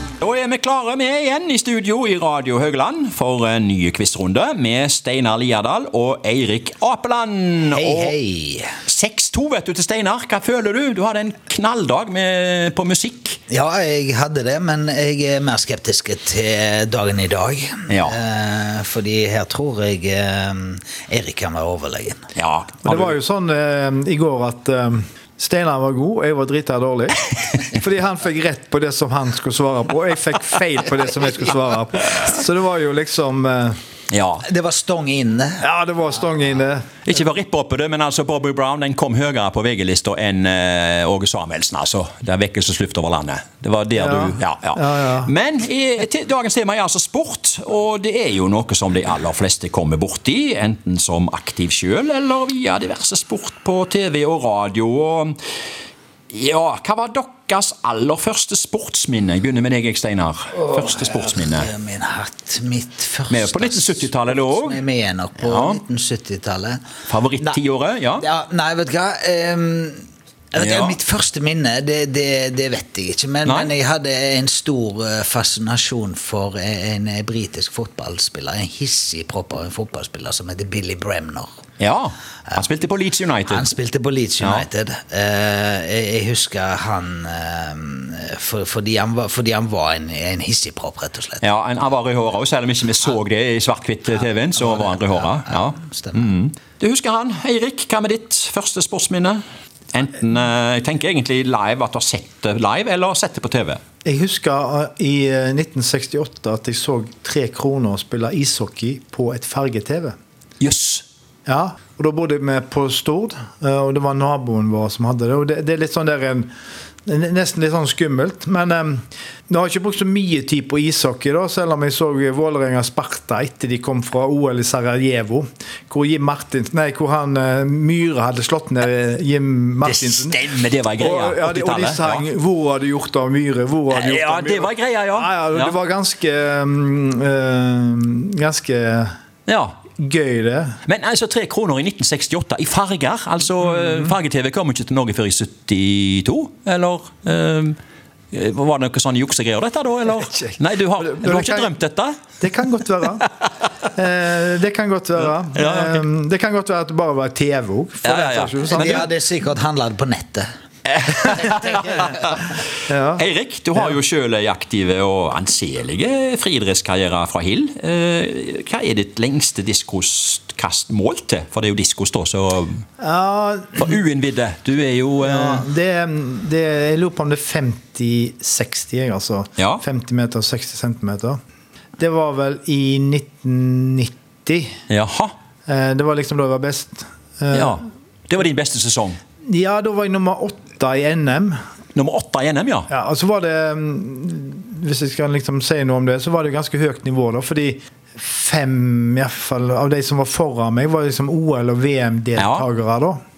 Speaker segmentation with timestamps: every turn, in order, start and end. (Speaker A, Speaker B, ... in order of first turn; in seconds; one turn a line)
Speaker A: 0.2-8.2
Speaker B: 7.7-8.7
Speaker A: 8.8-13.4
Speaker B: 13.5-22.3
Speaker A: 17.9-18.2
Speaker A: 22.3-23.2
Speaker C: 22.8-33.8
Speaker A: 34.1-34.5
Speaker B: 34.4-35.6
Speaker C: 35.6-37.0
Speaker A: 37.0-55.4
Speaker C: 44.0-45.3
Speaker A: 56.3-61.7
Speaker B: 60.8-66.8
Speaker A: 63.3-64.8
Speaker A: 65.4-65.8
Speaker A: 67.1-68.2
Speaker B: 68.2-81.5
Speaker A: 70.5-71.0
Speaker A: 73.4-73.7
Speaker A: 81.8-83.7
Speaker B: 83.5-91.5
Speaker A: 84.4-84.7
Speaker A: 91.4-103.8
Speaker B: 94.5-96.3
Speaker C: 104.0-110.1
Speaker A: 110.6-111.0
Speaker C: 111.5-116.5
Speaker C: 117.0-130.4
Speaker A: 129.8-132.2
Speaker C: 131.0-139.1
Speaker A: 133.9-135.7
Speaker A: 139.5-139.7
Speaker C: 140.0-140.8
Speaker A: 140.9-147.8
Speaker A: 148.3-152.2
Speaker C: 150.2-151.8
Speaker C: 152.4-153.3
Speaker C: 153.9-159.1
Speaker A: 155.6-156.0
Speaker A: 158.0-159.0
Speaker B: 158.7-160.5
Speaker A: 160.9-162.6
Speaker C: 162.9-163.2
Speaker A: 163.2-172.8
Speaker C: 173.0-174.0
Speaker A: 173.8-175.7
Speaker C: 175.2-181.4
Speaker C: 182.0-184.8
Speaker A: 184.9-185.3
Speaker C: 185.7-187.8
Speaker A: 187.5-189.2
Speaker C: 189.4-191.6
Speaker A: 191.9-192.9
Speaker C: 192.9-203.2
Speaker A: 202.4-202.7